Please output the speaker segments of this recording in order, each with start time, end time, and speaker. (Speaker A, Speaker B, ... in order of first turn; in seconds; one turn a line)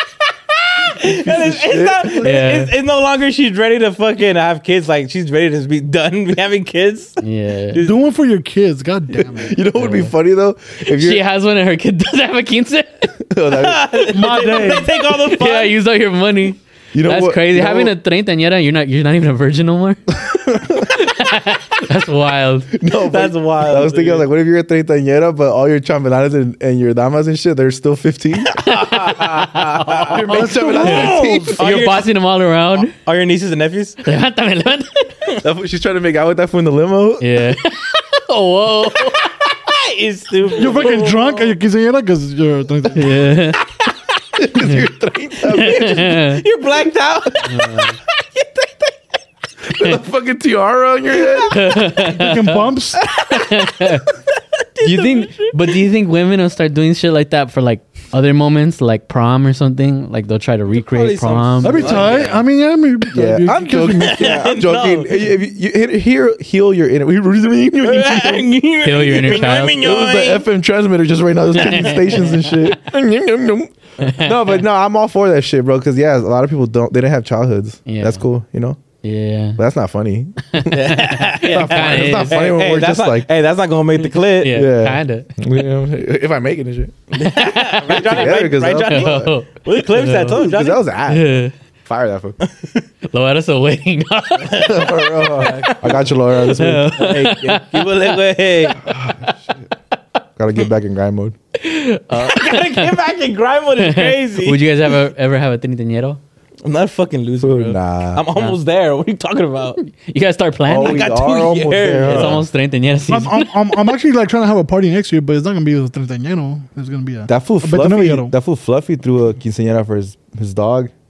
Speaker A: 0.9-7.2
Speaker B: 1.0-2.5
Speaker C: 2.2-2.7
Speaker C: 7.2-7.8
Speaker A: 7.7-8.0
Speaker D: 7.8-9.6
Speaker B: 9.3-11.2
Speaker C: 9.8-10.1
Speaker C: 10.8-13.3
Speaker B: 13.2-14.1
Speaker A: 13.5-15.7
Speaker D: 14.1-14.9
Speaker C: 14.9-22.7
Speaker B: 16.9-17.9
Speaker B: 20.2-20.9
Speaker B: 22.7-31.6
Speaker A: 22.9-24.3
Speaker A: 28.5-29.3
Speaker C: 28.7-30.2
Speaker A: 29.9-32.1
Speaker D: 30.1-31.6
Speaker C: 30.8-32.9
Speaker A: 32.8-34.0
Speaker C: 34.0-35.1
Speaker B: 35.4-37.5
Speaker C: 37.2-39.3
Speaker A: 39.6-41.6
Speaker D: 40.5-43.4
Speaker C: 42.9-43.6
Speaker B: 44.4-46.1
Speaker C: 44.5-44.8
Speaker A: 45.5-49.0
Speaker C: 45.5-46.4
Speaker C: 47.4-48.0
Speaker B: 49.7-51.6
Speaker C: 51.5-54.1
Speaker D: 51.9-53.0
Speaker A: 53.2-53.5
Speaker A: 54.6-55.5
Speaker C: 54.8-62.0
Speaker A: 60.7-62.4
Speaker D: 61.6-64.5
Speaker B: 63.1-68.5
Speaker A: 64.0-65.3
Speaker A: 67.8-70.4
Speaker C: 68.8-69.8
Speaker B: 69.1-78.8
Speaker C: 71.5-72.8
Speaker C: 74.0-74.4
Speaker C: 77.8-78.2
Speaker C: 79.0-79.6
Speaker B: 79.6-83.3
Speaker C: 80.5-82.5
Speaker A: 80.7-84.6
Speaker C: 84.0-85.4
Speaker B: 84.5-87.1
Speaker A: 87.1-90.8
Speaker C: 87.2-90.4
Speaker B: 87.9-89.3
Speaker B: 90.3-92.4
Speaker C: 91.1-91.5
Speaker C: 93.1-98.9
Speaker A: 94.4-96.2
Speaker B: 94.5-97.4
Speaker A: 96.9-98.8
Speaker B: 98.8-99.7
Speaker B: 100.4-101.3
Speaker C: 101.6-103.0
Speaker A: 102.1-104.7
Speaker C: 103.8-106.2
Speaker A: 106.6-109.8
Speaker B: 107.4-108.3
Speaker C: 109.8-111.1
Speaker B: 110.7-112.5
Speaker A: 110.7-112.4
Speaker C: 112.0-113.8
Speaker D: 113.1-118.3
Speaker B: 117.3-120.9